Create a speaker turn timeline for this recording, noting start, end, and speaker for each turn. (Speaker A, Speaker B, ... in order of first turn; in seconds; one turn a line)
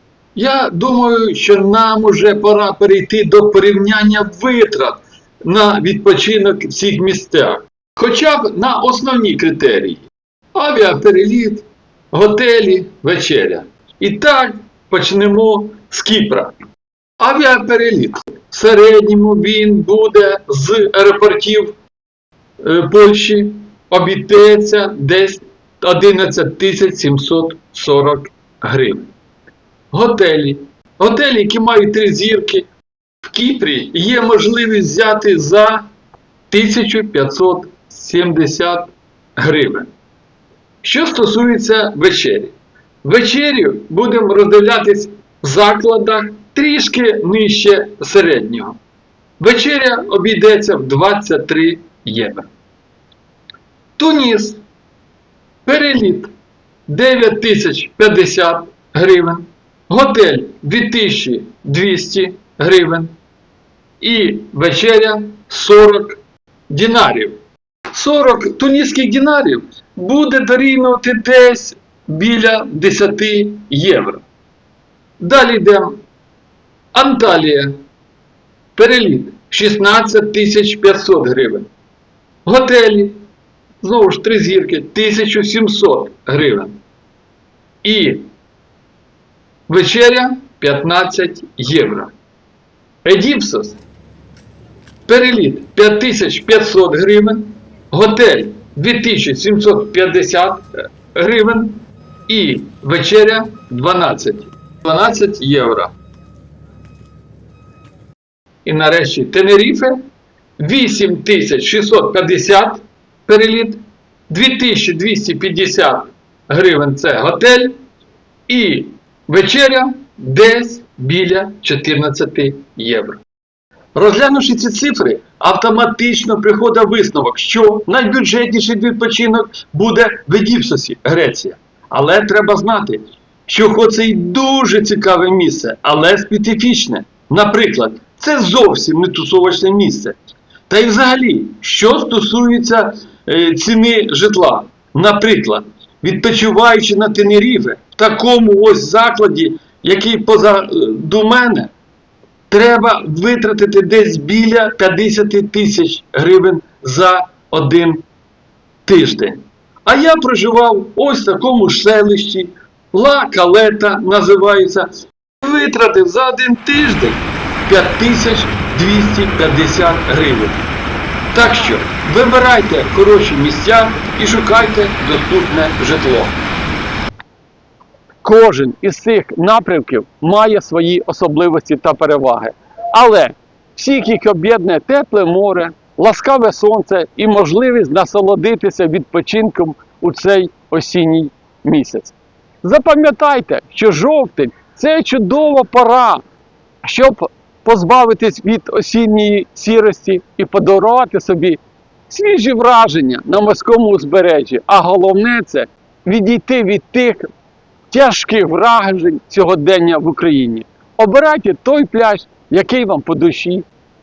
Speaker A: 0.4-16.5
Speaker A: 17.2-21.8
Speaker A: 22.6-29.1
Speaker A: 29.9-32.7
Speaker A: 33.2-35.9
Speaker A: 36.5-39.9
Speaker A: 40.8-48.8
Speaker A: 49.4-52.5
Speaker A: 54.0-54.6
Speaker A: 55.6-56.3
Speaker A: 56.9-63.1
Speaker A: 64.0-67.4
Speaker A: 67.9-74.2
Speaker A: 75.2-76.0
Speaker A: 76.9-77.8
Speaker A: 78.8-81.7
Speaker A: 82.5-83.2
Speaker A: 83.8-86.8
Speaker A: 87.8-88.3
Speaker A: 89.7-92.1
Speaker A: 93.0-93.8
Speaker A: 95.1-105.9
Speaker A: 108.6-110.0
Speaker A: 110.6-117.8
Speaker A: 118.5-123.2
Speaker A: 124.0-140.2
Speaker A: 140.7-151.7
Speaker A: 152.5-158.0
Speaker A: 158.8-164.9
Speaker A: 165.4-170.6
Speaker A: 171.3-176.4
Speaker A: 178.2-196.2
Speaker A: 196.8-207.3
Speaker A: 207.9-213.6